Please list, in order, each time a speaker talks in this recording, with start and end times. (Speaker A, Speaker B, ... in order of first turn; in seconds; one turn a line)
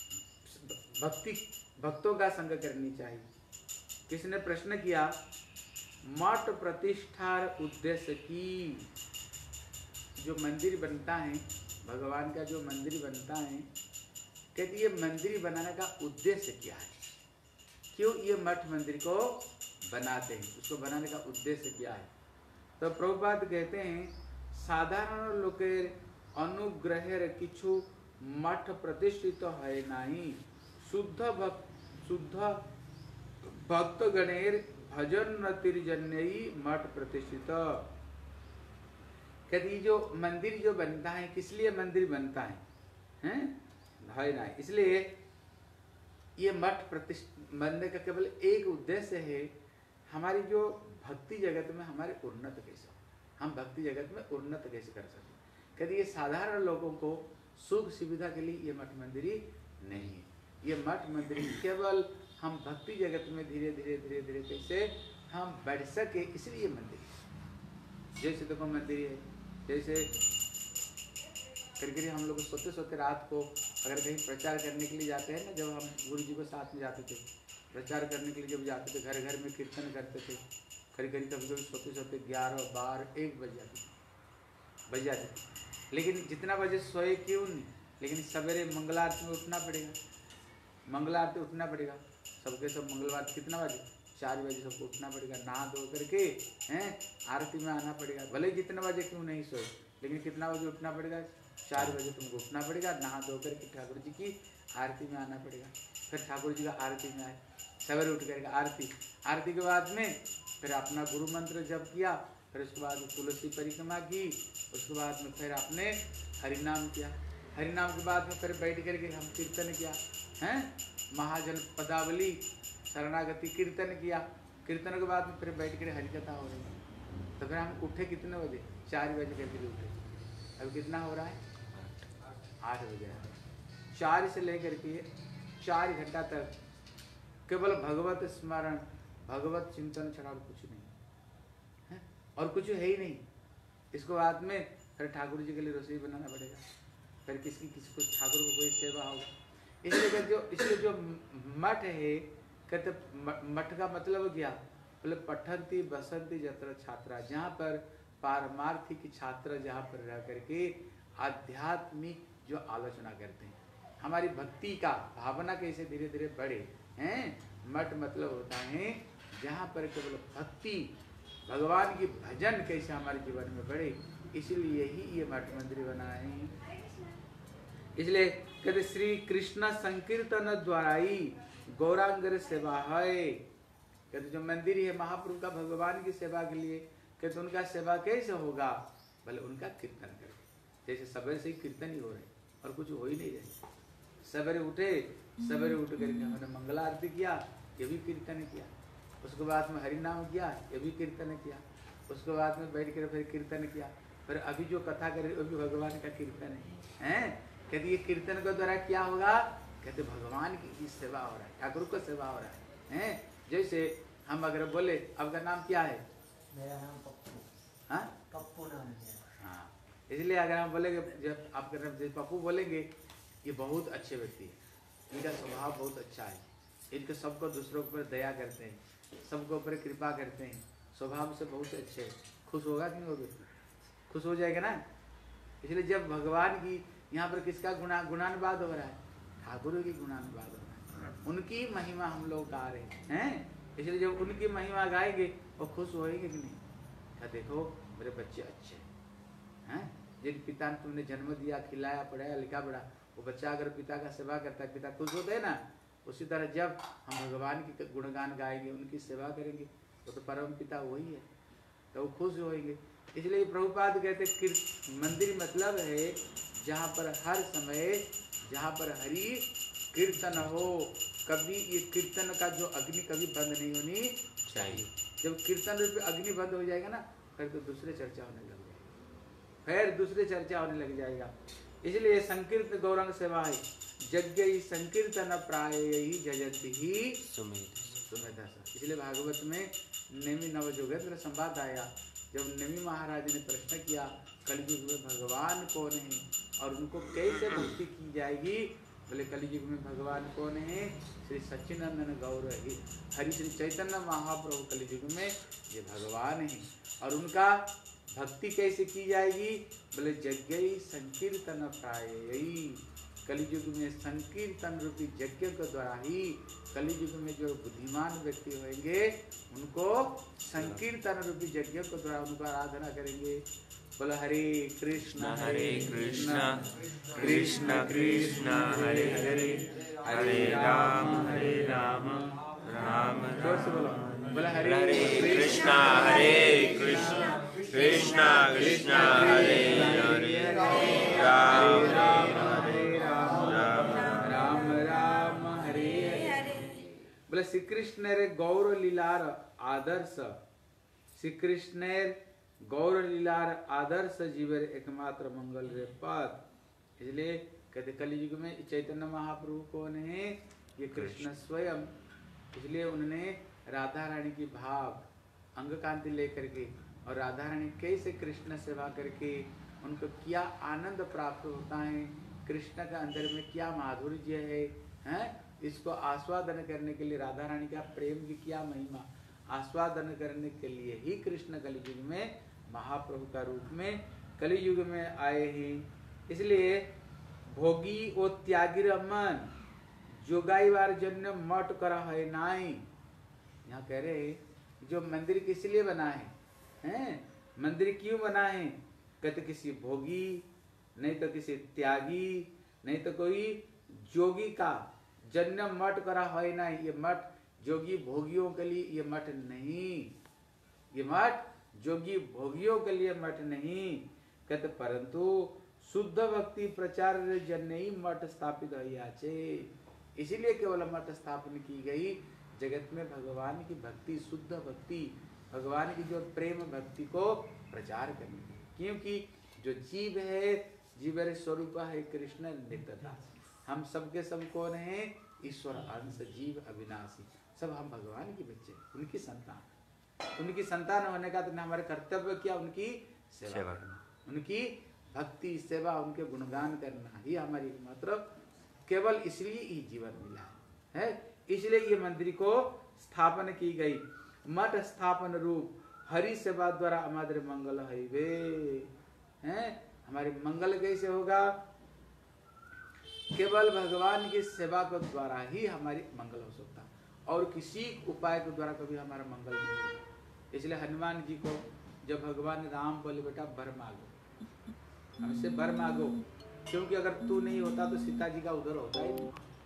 Speaker A: 0.4-3.3
Speaker A: 4.1-5.2
Speaker A: 6.0-8.9
Speaker A: 10.2-13.7
Speaker A: 14.6-17.0
Speaker A: 17.9-22.1
Speaker A: 22.8-32.6
Speaker A: 33.4-37.9
Speaker A: 39.5-42.6
Speaker A: 43.2-45.2
Speaker A: 46.4-49.5
Speaker A: 50.1-67.2
Speaker A: 68.2-70.1
Speaker A: 71.8-80.4
Speaker A: 80.9-83.9
Speaker A: 84.9-90.0
Speaker A: 90.9-126.7
Speaker A: 127.4-130.0
Speaker A: 130.6-131.4
Speaker B: 131.7-132.1
Speaker A: 132.6-133.3
Speaker A: 133.9-135.1
Speaker A: 135.6-136.5
Speaker A: 137.5-140.9
Speaker A: 141.9-143.2
Speaker A: 143.9-146.6
Speaker A: 147.3-149.3
Speaker A: 149.8-170.9
Speaker A: 171.5-176.6
Speaker A: 178.0-183.5
Speaker A: 184.1-193.6
Speaker A: 194.2-198.7
Speaker A: 199.2-216.0
Speaker C: 216.5-217.5
Speaker A: 217.9-218.1
Speaker C: 218.3-219.2
Speaker A: 219.4-233.5
Speaker A: 234.1-234.8
Speaker A: 235.6-246.6
Speaker A: 247.2-248.9
Speaker A: 249.7-261.3
Speaker A: 261.9-278.9
Speaker B: 274.5-274.9
Speaker A: 279.6-281.3
Speaker A: 281.8-287.2
Speaker B: 287.2-288.0
Speaker A: 288.1-323.4
Speaker B: 320.6-320.8
Speaker A: 324.0-326.6
Speaker B: 325.0-333.8
Speaker A: 327.1-331.8
Speaker A: 333.4-335.7
Speaker B: 334.6-342.8
Speaker A: 338.6-346.7
Speaker B: 343.4-344.2
Speaker A: 347.3-350.4
Speaker A: 351.1-356.4
Speaker A: 357.0-361.9
Speaker B: 360.9-361.3
Speaker A: 362.5-386.9
Speaker A: 387.5-389.5
Speaker A: 390.2-392.9
Speaker A: 393.6-410.1
Speaker A: 410.9-439.7
Speaker A: 440.4-448.3
Speaker B: 443.5-443.9
Speaker A: 448.9-458.9
Speaker A: 459.4-461.6
Speaker A: 463.3-474.1
Speaker A: 475.2-479.3